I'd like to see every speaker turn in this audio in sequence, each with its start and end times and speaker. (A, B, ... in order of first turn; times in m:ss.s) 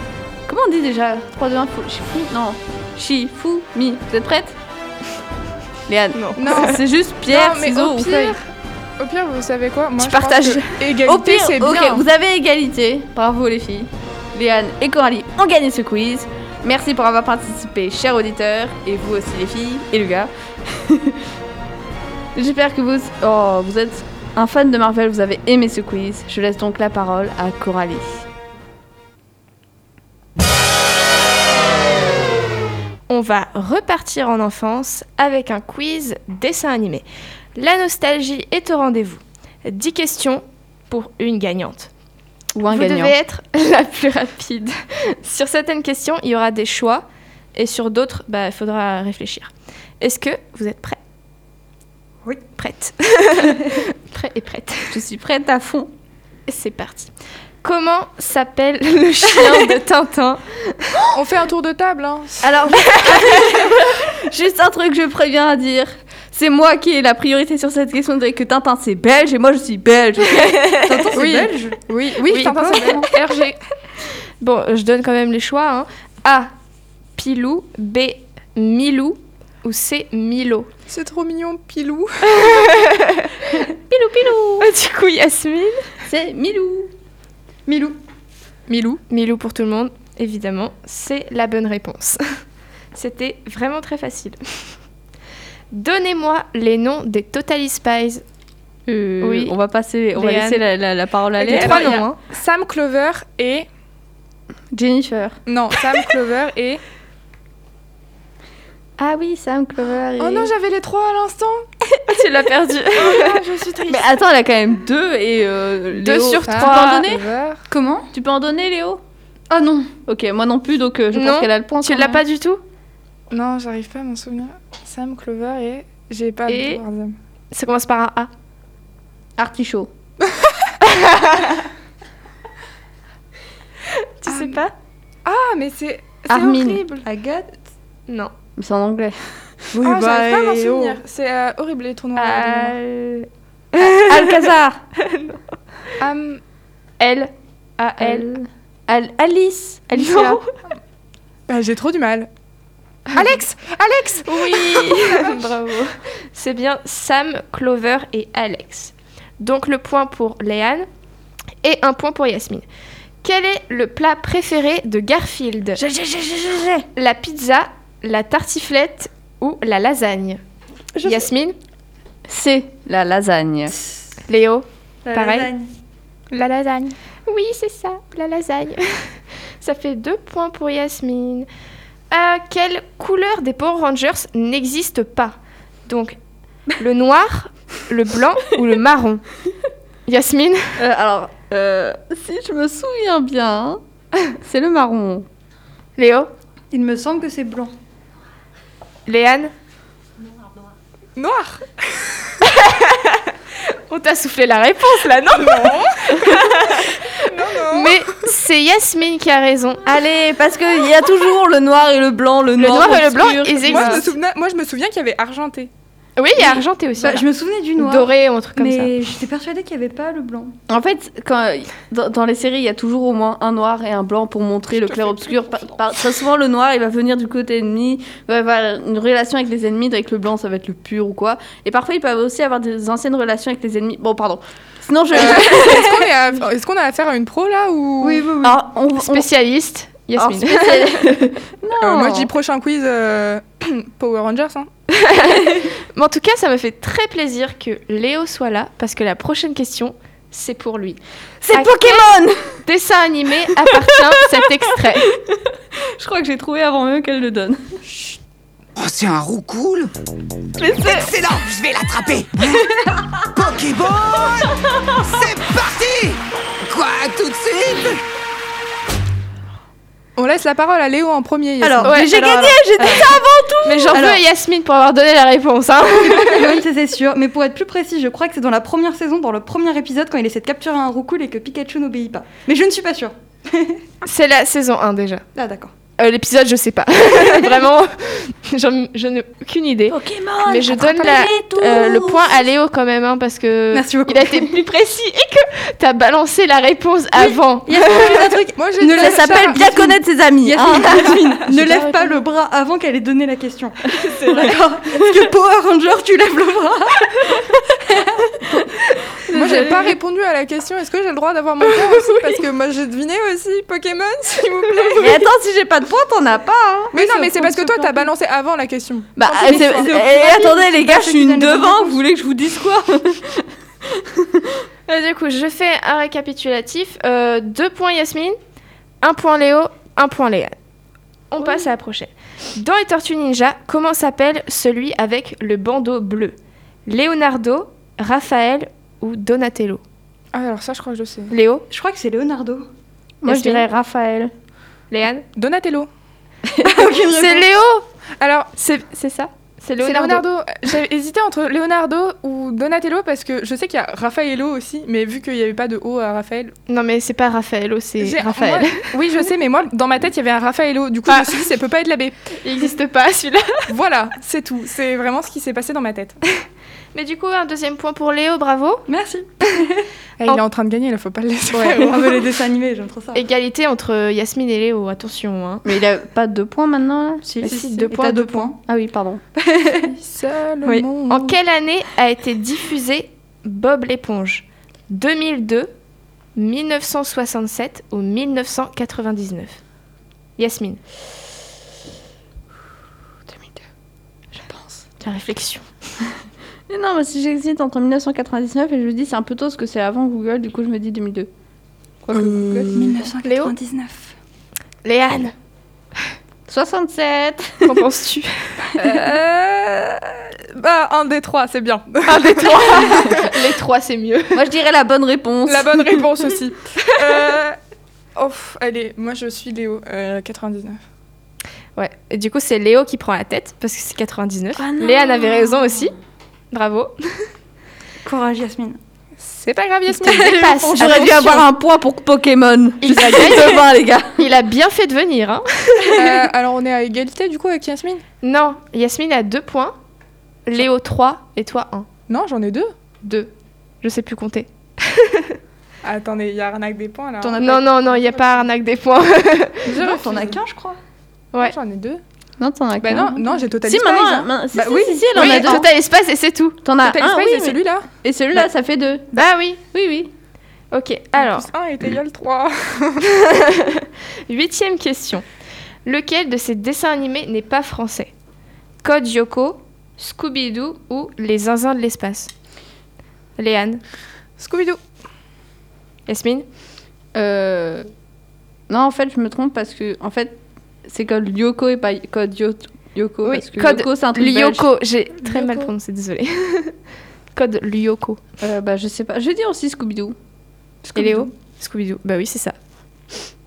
0:00.5-0:04.5 A
0:05.9-0:08.4 A
0:06.1-0:06.7 B
0:06.4-0:08.4 C
0:09.0-0:12.0 C
0:10.0-0:21.2 A
0:22.3-0:28.2 A
0:33.1-0:41.9 B
0:42.5-0:43.1 A
0:42.7-0:51.0 B
0:52.6-0:55.0 B
0:54.9-0:55.9 A
0:56.5-0:57.1 B
0:57.6-1:01.0 B
1:01.1-1:02.6 C
1:02.4-1:10.8 A
1:10.4-1:10.9 B
1:10.8-1:11.8 D
1:11.1-1:13.2 C
1:12.3-1:13.6 B
1:12.3-1:13.1 D
1:14.4-1:16.5 B
1:17.2-1:20.7 B
1:20.9-1:22.6 C
1:22.3-1:23.3 B
1:23.9-1:24.7 A
1:24.6-1:25.8 B
1:26.0-1:26.9 A
1:27.6-1:28.0 D
1:28.7-1:29.0 C
1:29.1-1:32.2 B
1:32.9-1:34.7 B
1:35.7-1:38.2 B
1:38.9-1:42.0 A
1:39.2-1:39.5 B
1:40.1-1:40.6 B
1:41.4-1:42.2 B
1:41.5-1:43.6 C
1:44.7-1:45.4 A
1:45.5-1:46.8 C
1:49.0-1:50.5 A
1:50.2-1:51.6 C
1:52.1-1:53.4 B
1:52.9-1:54.1 C
1:53.9-1:57.2 A
1:55.9-1:57.0 B
1:56.5-1:57.6 C
1:57.7-1:58.1 D
1:58.1-1:59.0 A
1:59.5-1:59.9 D
1:59.9-2:02.2 A
2:01.1-2:02.6 B
2:03.3-2:07.1 C
2:06.5-2:06.8 B
2:07.5-2:08.3 B
2:09.4-2:09.9 A
2:10.3-2:10.5 C
2:10.8-2:11.5 B
2:14.0-2:14.7 B
2:14.2-2:14.6 C
2:15.2-2:17.0 C
2:16.3-2:16.8 A
2:17.0-2:17.6 D
2:18.6-2:19.3 A
2:19.7-2:21.0 D
2:19.8-2:22.7 C
2:22.2-2:25.4 B
2:23.8-2:24.8 A
2:26.0-2:26.4 C
2:27.0-2:28.3 B
2:28.0-2:30.4 A
2:29.9-2:30.4 B
2:31.5-2:32.3 C
2:33.1-2:35.4 C
2:34.2-2:40.9 B
2:41.6-2:42.6 B
2:43.2-2:45.8 B
2:45.8-2:46.9 A
2:47.0-2:50.4 B
2:50.9-2:51.3 D
2:51.0-2:51.6 B
2:52.3-2:53.7 A
2:54.3-2:55.5 B
2:55.0-2:55.7 D
2:56.3-2:56.9 C
2:57.2-3:01.5 B
3:02.1-3:05.4 B
3:05.9-3:06.2 B
3:06.8-3:09.2 B
3:10.1-3:10.7 B
3:10.8-3:15.3 A
3:16.0-3:16.3 B
3:16.7-3:17.7 D
3:19.0-3:19.5 B
3:21.2-3:22.3 C
3:22.4-3:30.0 B
3:25.3-3:28.0 C
3:29.8-3:34.1 A
3:32.6-3:34.0 B
3:33.6-3:35.7 C
3:36.2-3:37.3 B
3:36.5-3:40.6 D
3:37.8-3:38.9 B
3:40.7-3:56.1 A
3:55.1-3:58.3 C
3:58.0-3:58.6 D
3:58.4-3:59.3 A
3:59.0-4:01.3 B
4:00.2-4:02.3 A
4:01.8-4:04.7 C
4:04.9-4:12.1 B
4:11.4-4:12.6 A
4:12.6-4:15.1 B
4:13.5-4:17.7 A
4:18.8-4:19.9 E
4:20.6-4:21.1 A
4:20.8-4:22.6 E
4:23.3-4:28.0 E
4:30.2-4:32.0 C
4:31.6-4:32.0 D
4:31.8-4:33.0 B
4:31.9-4:34.1 A
4:32.8-4:33.1 D
4:33.6-4:36.6 B
4:33.9-4:34.2 D
4:35.9-4:43.8 D
4:44.0-4:45.2 B
4:45.3-4:45.7 D
4:46.0-4:58.4 B
4:49.9-4:52.4 A
4:53.7-4:54.6 D
4:57.1-5:08.3 D
4:58.6-4:59.8 C
4:58.8-5:01.2 A
5:01.5-5:02.2 B
5:03.9-5:04.6 B
5:08.5-5:10.0 A
5:09.3-5:15.3 C
5:11.6-5:12.4 A
5:14.9-5:16.9 A
5:16.9-5:18.1 D
5:16.9-5:19.9 C
5:19.2-5:24.6 A
5:19.3-5:22.0 D
5:24.9-5:28.4 B
5:29.0-5:30.5 B
5:31.3-5:39.8 B
5:40.3-5:41.3 C
5:41.3-5:41.6 B
5:41.7-5:42.7 D
5:43.2-5:44.3 A
5:43.2-5:43.6 B
5:44.9-5:45.2 B
5:45.4-5:45.9 C
5:46.6-5:47.5 D
5:46.8-5:47.8 B
5:48.2-5:48.5 C
5:48.6-5:50.2 B
5:49.8-5:56.5 C
5:56.7-5:59.0 B
5:58.0-6:02.1 C
6:01.1-6:01.4 B
6:02.4-6:03.7 B
6:03.7-6:06.2 C
6:06.9-6:08.8 B
6:08.9-6:09.8 D
6:10.2-6:12.3 C
6:11.5-6:13.2 D
6:13.1-6:15.6 B
6:15.6-6:17.8 A
6:17.2-6:18.6 D
6:17.4-6:18.3 B
6:18.6-6:19.2 A
6:19.4-6:19.9 D
6:19.9-6:21.3 C
6:21.1-6:25.7 B
6:26.4-6:29.6 B
6:30.4-6:30.8 B
6:35.0-6:35.7 B
6:36.7-6:41.3 A
6:42.0-6:43.1 A
6:42.1-6:44.1 D
6:43.2-6:43.5 B
6:44.8-6:45.3 B
6:46.5-6:47.8 A
6:47.6-6:48.7 B
6:48.7-6:53.3 C
6:52.0-6:54.4 B
6:54.3-6:56.0 A
6:55.4-6:57.6 C
6:58.1-7:00.8 C
7:01.8-7:05.9 B
7:04.6-7:05.9 A
7:06.5-7:07.2 B
7:08.0-7:08.8 D
7:09.2-7:10.3 C
7:10.0-7:11.3 D
7:10.0-7:11.5 B
7:10.7-7:14.2 A
7:12.8-7:16.0 B
7:15.9-7:18.0 C
7:18.2-7:19.8 B
7:20.4-7:21.9 B
7:22.1-7:22.7 C
7:23.0-7:23.3 B
7:23.8-7:25.4 B
7:25.8-7:28.3 C
7:27.2-7:27.7 D
7:27.4-7:29.6 B
7:29.6-7:30.4 C
7:29.7-7:30.8 D
7:31.4-7:32.0 C
7:32.4-7:35.7 A
7:32.8-7:34.4 C
7:34.5-7:35.1 D
7:35.1-7:36.6 B
7:35.2-7:35.6 C
7:36.6-7:40.1 A
7:36.8-7:37.8 C
7:39.1-7:39.6 B
7:40.7-7:41.5 B
7:41.1-7:43.0 C
7:43.1-7:45.2 B
7:45.8-7:48.1 B
7:48.8-7:52.3 B
7:53.4-7:53.8 B
7:54.4-7:54.8 C
7:56.1-7:56.4 B
7:57.1-7:57.9 A
7:58.7-8:04.7 A
8:03.2-8:06.7 B
8:05.2-8:05.7 C
8:07.3-8:08.2 B
8:08.4-8:10.1 A
8:10.9-8:11.3 A
8:10.9-8:12.5 B